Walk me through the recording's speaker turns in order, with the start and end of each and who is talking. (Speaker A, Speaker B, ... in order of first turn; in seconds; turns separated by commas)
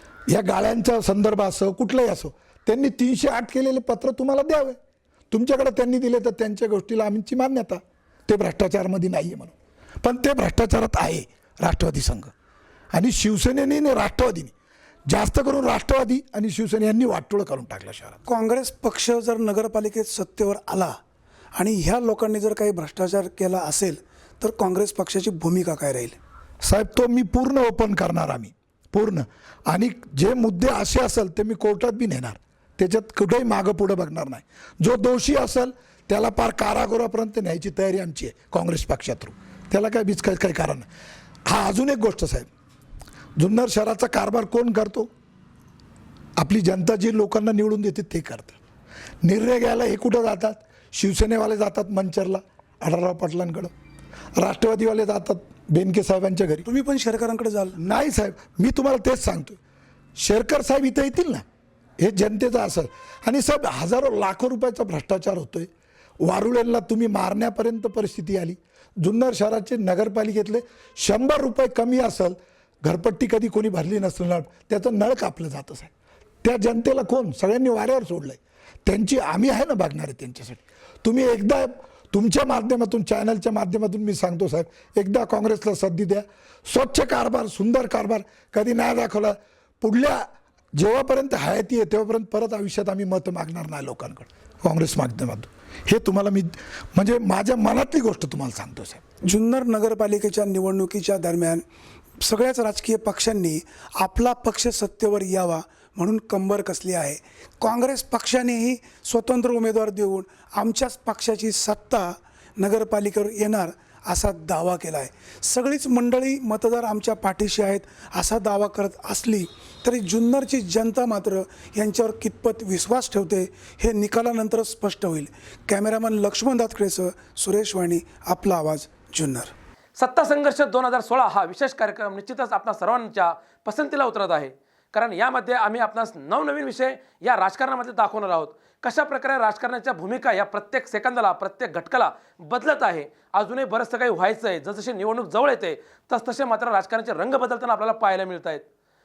Speaker A: 0.3-4.8, Speaker A: 5.3-12.3, Speaker A: 12.9-14.5, Speaker A: 15.1-18.2, Speaker B: 18.3-21.0, Speaker B: 21.6-26.2, Speaker A: 26.6-40.9, Speaker A: 41.5-42.5, Speaker A: 43.4-45.1, Speaker A: 46.4-48.6, Speaker A: 49.2-53.7, Speaker A: 54.4-56.6, Speaker B: 56.6-57.8, Speaker A: 57.8-59.6, Speaker A: 60.2-61.4, Speaker A: 62.0-65.7, Speaker A: 66.2-75.9, Speaker A: 76.4-99.0, Speaker B: 99.2-101.6, Speaker B: 102.2-129.5, Speaker C: 130.0-148.6